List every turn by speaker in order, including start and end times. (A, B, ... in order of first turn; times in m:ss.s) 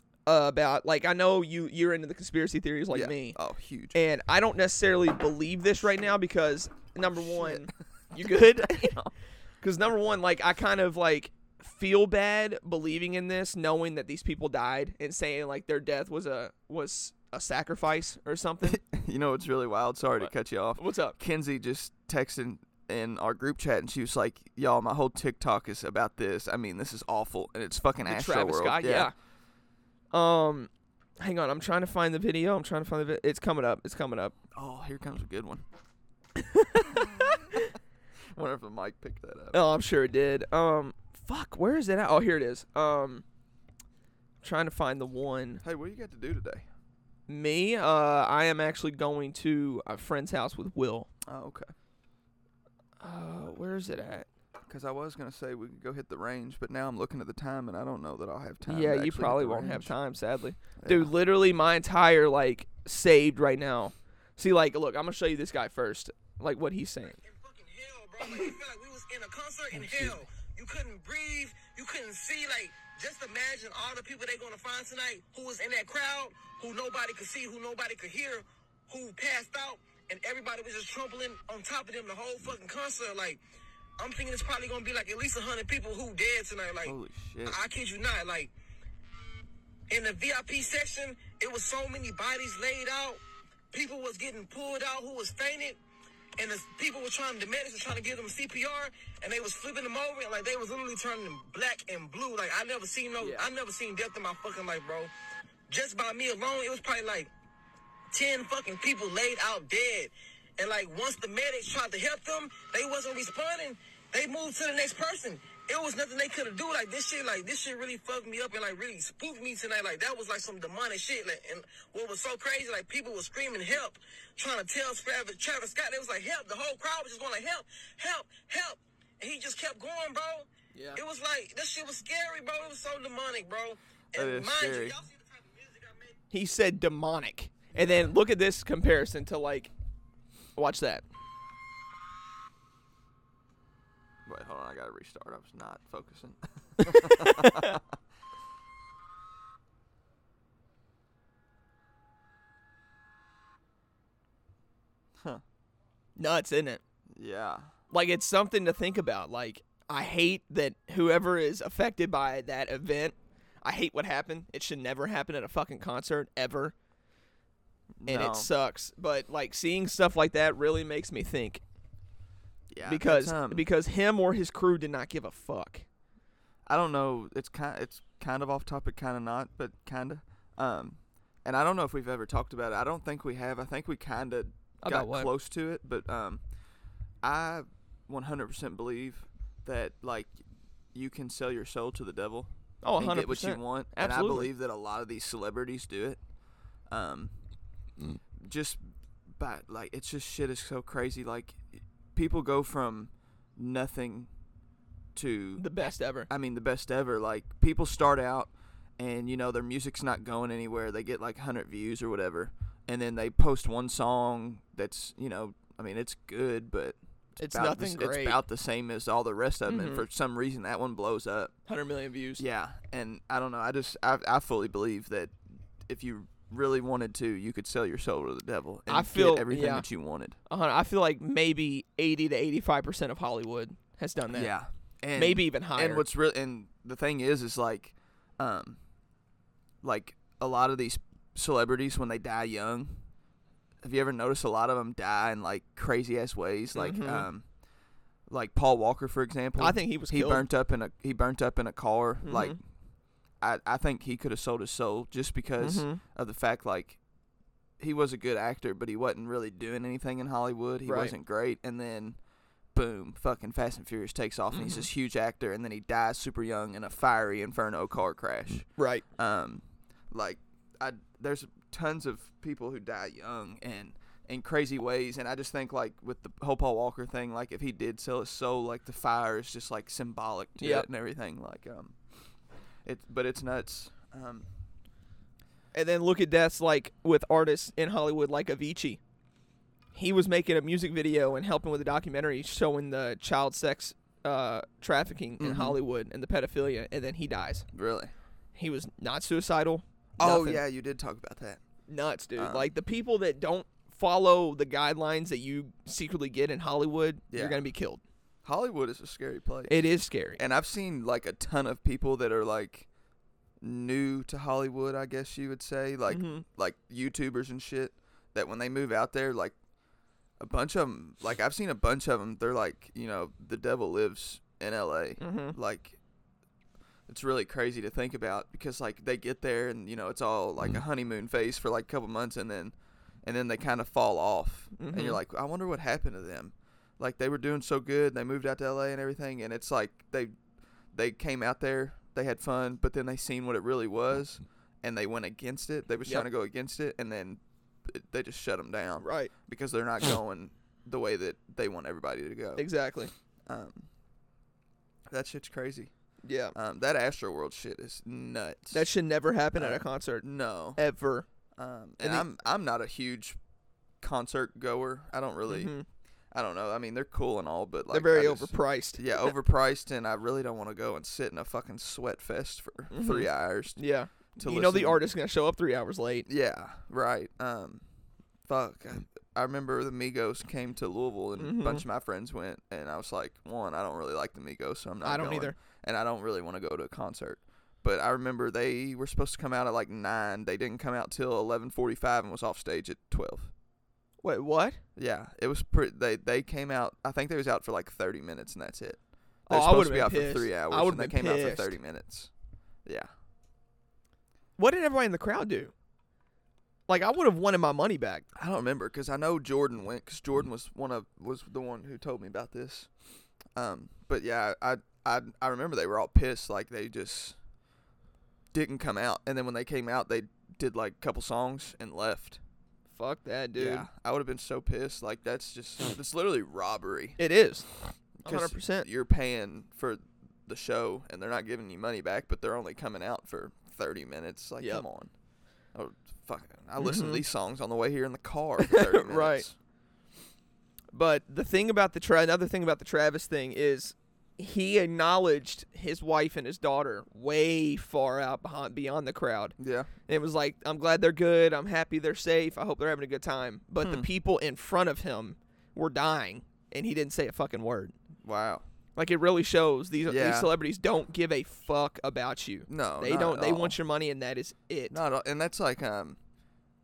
0:00.3-0:03.4 A
0:02.9-0:04.0 B
0:03.9-0:09.0 A
0:07.0-0:09.1 B
0:09.6-0:18.8 A
0:18.6-0:29.1 B
0:20.2-0:21.2 A
0:28.1-0:29.1 A
0:30.1-0:34.4 A
0:34.5-0:35.6 B
0:36.4-0:37.7 A
0:36.8-0:37.7 B
0:38.3-0:39.6 B
0:39.5-0:43.2 A
0:44.4-0:45.6 A
0:45.6-0:46.7 B
0:47.3-0:51.1 A
0:51.3-0:51.7 B
0:53.0-0:54.3 A
0:54.7-1:00.0 B
0:58.7-1:07.2 A
1:00.8-1:01.1 B
1:07.1-1:23.4 C
1:09.8-1:10.2 B
1:24.0-1:28.5 C
1:26.8-1:27.6 B
1:29.9-1:33.2 C
1:33.7-1:35.8 C
1:36.4-1:45.1 C
1:43.2-1:43.5 A
1:45.7-1:47.3 C
1:48.1-2:16.2 C
2:10.7-2:11.0 A
2:14.1-2:15.0 B
2:16.3-2:19.7 A
2:20.6-2:21.0 A
2:24.3-2:28.0 B
2:26.8-2:27.8 A
2:36.2-2:36.8 A
2:37.1-2:37.7 B
2:37.9-2:46.7 A
2:48.0-2:48.5 B
2:48.1-2:51.6 A
2:52.7-2:53.7 B
2:52.8-2:55.8 A
2:56.7-3:06.4 B
3:04.8-3:05.3 A
3:07.2-3:10.3 B
3:10.9-3:16.2 B
3:12.8-3:14.5 A
3:16.9-3:17.3 B
3:18.3-3:18.8 B
3:19.3-3:24.3 B
3:25.2-3:25.6 B
3:25.6-3:26.3 A
3:26.3-3:41.5 B
3:37.4-3:38.4 A
3:39.7-3:40.0 A
3:41.7-3:42.4 A
3:42.4-3:50.4 B
3:48.9-3:49.9 A
3:50.5-3:54.5 A
3:54.3-3:58.8 B
3:55.2-3:56.0 A
3:59.8-4:03.0 B
4:03.8-4:07.5 B
4:06.8-4:07.3 A
4:08.3-4:12.6 B
4:09.6-4:10.5 A
4:12.2-4:12.6 A
4:13.4-4:17.0 B
4:15.6-4:16.0 A
4:17.8-4:22.2 B
4:20.9-4:21.1 A
4:22.7-4:42.0 B
4:24.5-4:24.9 A
4:28.8-4:29.0 A
4:40.6-4:40.9 A
4:42.8-4:44.5 B
4:45.7-4:49.0 A
4:50.0-4:57.7 A
4:55.4-4:55.8 B
4:57.7-4:58.1 B
4:58.6-5:00.6 A
5:00.2-5:01.6 B
5:01.9-5:08.0 A
5:02.4-5:02.7 B
5:07.3-5:07.6 B
5:08.4-5:09.8 B
5:09.7-5:10.4 A
5:10.4-5:12.9 B
5:13.6-5:19.6 B
5:16.1-5:16.4 A
5:20.4-5:26.0 B
5:25.2-5:25.6 A
5:27.1-5:40.3 B
5:34.8-5:35.2 A
5:40.9-5:52.7 B
5:49.0-5:49.3 A
5:52.6-5:53.1 A
5:53.5-5:53.9 B
5:55.1-5:55.9 B
5:56.2-5:56.6 A
5:56.6-5:58.9 B
5:58.7-6:01.3 A
5:59.6-6:00.8 B
6:01.6-6:03.4 B
6:02.0-6:02.3 A
6:04.0-6:05.7 B
6:05.5-6:05.9 A
6:06.3-6:13.8 B
6:07.9-6:09.3 A
6:12.9-6:16.3 A
6:14.4-6:15.0 B
6:16.3-6:17.8 B
6:18.5-6:33.5 B
6:21.4-6:21.8 A
6:25.0-6:25.6 A
6:34.2-6:34.8 A
6:35.0-6:42.3 B
6:39.5-6:41.8 A
6:44.6-6:45.7 A
6:46.9-6:48.3 A
6:48.4-6:52.9 B
6:53.6-6:57.4 B
6:58.5-7:02.4 B
7:02.9-7:03.9 A
7:03.6-7:07.2 B
7:07.2-7:07.7 A
7:08.2-7:15.1 B
7:08.2-7:08.9 A
7:15.7-7:19.5 B
7:16.8-7:17.2 A
7:18.6-7:19.5 A
7:20.9-7:29.6 A
7:29.6-7:29.9 B
7:30.1-7:37.9 A
7:33.8-7:34.1 B
7:38.2-7:38.6 B
7:39.0-7:45.0 A
7:40.1-7:40.5 B
7:42.7-7:43.8 B
7:44.9-7:46.2 B